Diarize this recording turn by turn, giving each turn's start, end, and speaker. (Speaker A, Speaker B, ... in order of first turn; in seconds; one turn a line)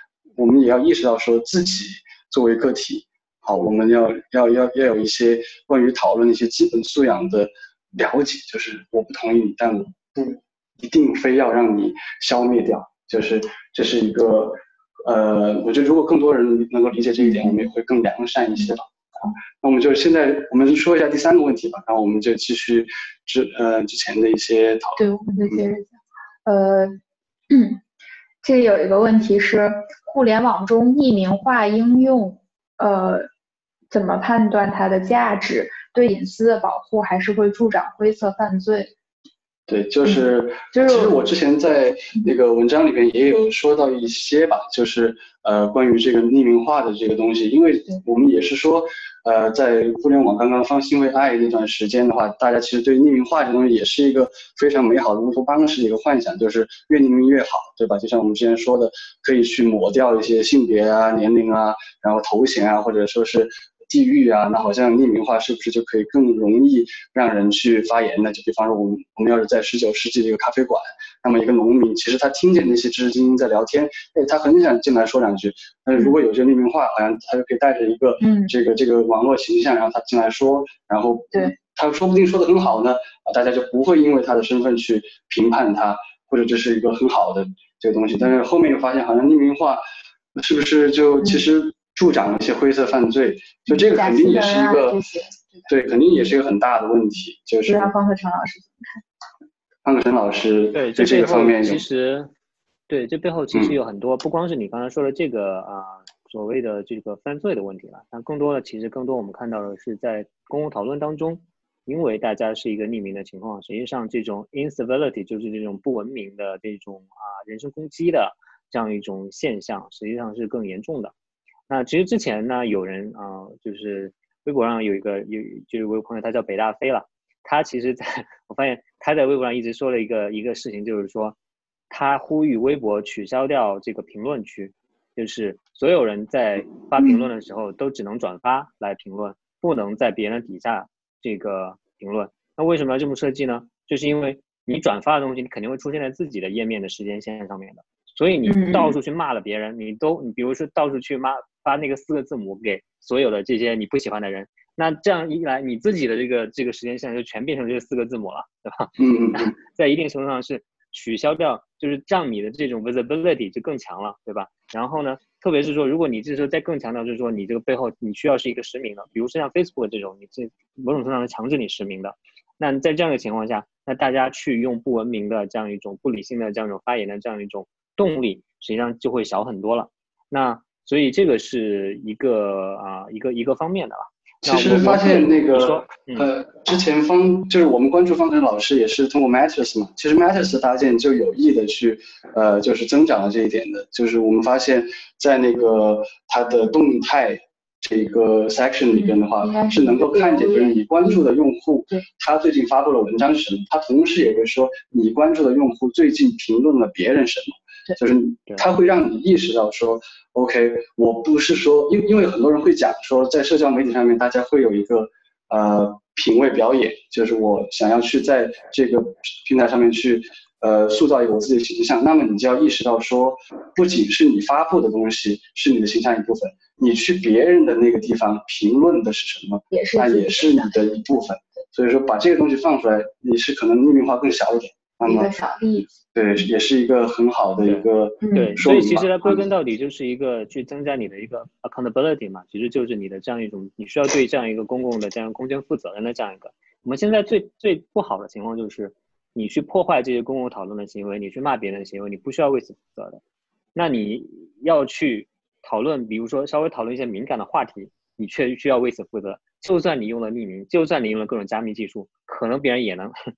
Speaker A: 0.4-25.6
Speaker B: 17.2-17.6
Speaker B: 25.0-27.0
Speaker B: 27.5-27.8
Speaker B: 28.4-33.3
Speaker B: 33.9-38.9
Speaker A: 39.7-89.8
Speaker B: 40.0-41.2
Speaker B: 78.2-78.5
Speaker A: 90.3-95.0
Speaker B: 93.7-95.7
Speaker A: 95.7-97.9
Speaker B: 97.7-99.0
Speaker A: 99.8-101.8
Speaker C: 100.7-102.3
Speaker C: 102.9-121.1
Speaker C: 121.7-131.4
Speaker C: 131.9-186.3
Speaker B: 148.5-148.9
Speaker A: 159.0-159.6
Speaker A: 184.4-235.3
Speaker B: 198.9-201.2
Speaker B: 229.7-231.2
Speaker B: 235.1-235.9
Speaker A: 235.9-239.5
Speaker C: 237.6-253.2
Speaker B: 238.2-238.6
Speaker C: 253.8-263.1